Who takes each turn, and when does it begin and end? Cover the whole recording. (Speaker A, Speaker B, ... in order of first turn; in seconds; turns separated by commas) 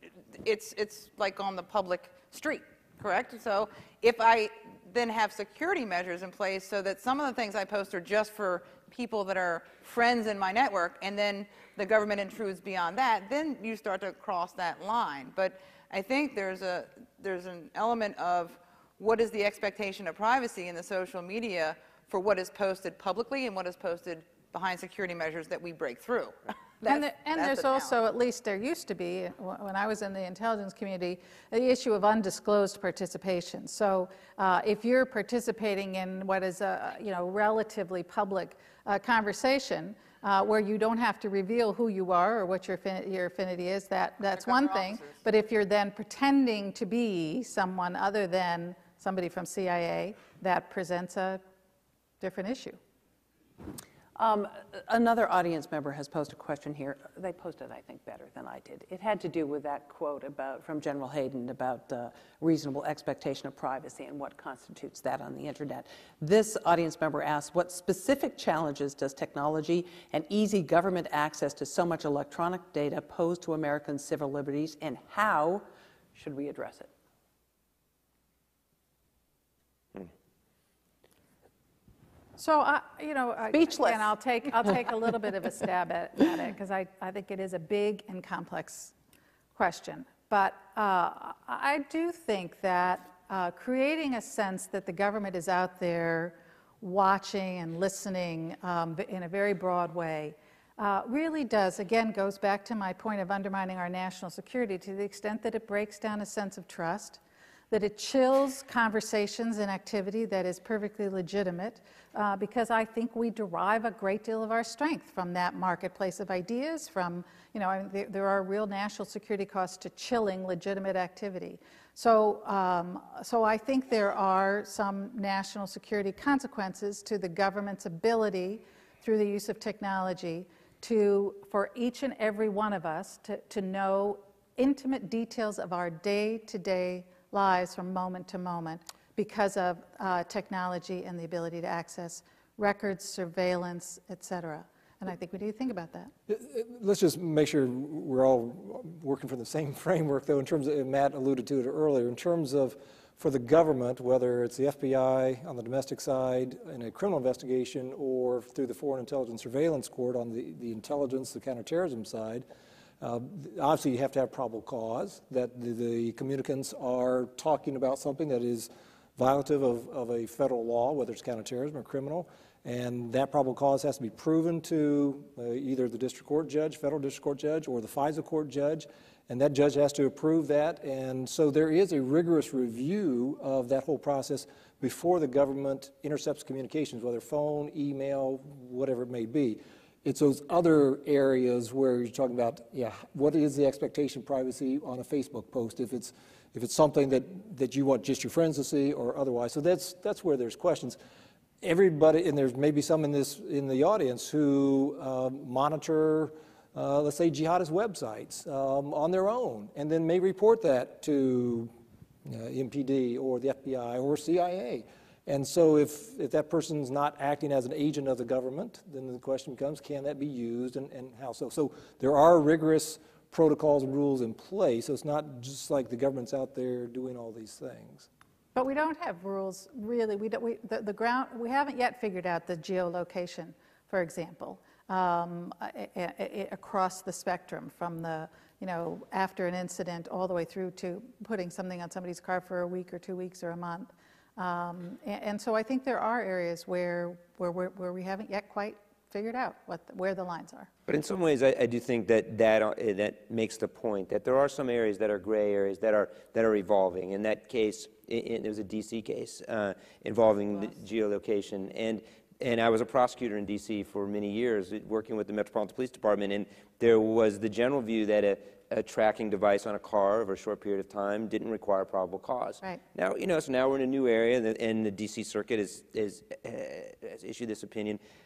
Speaker A: 0.3-28.0, Speaker B: 26.9-51.4, Speaker A: 44.2-45.2, Speaker B: 52.2-52.8, Speaker C: 54.2-76.9, Speaker B: 82.4-88.9, Speaker C: 83.5-84.1, Speaker B: 89.5-107.2, Speaker B: 107.7-146.1, Speaker D: 146.3-162.4, Speaker D: 163.0-201.0, Speaker D: 201.6-211.7, Speaker D: 212.2-228.1, Speaker B: 228.6-250.7, Speaker E: 250.9-278.0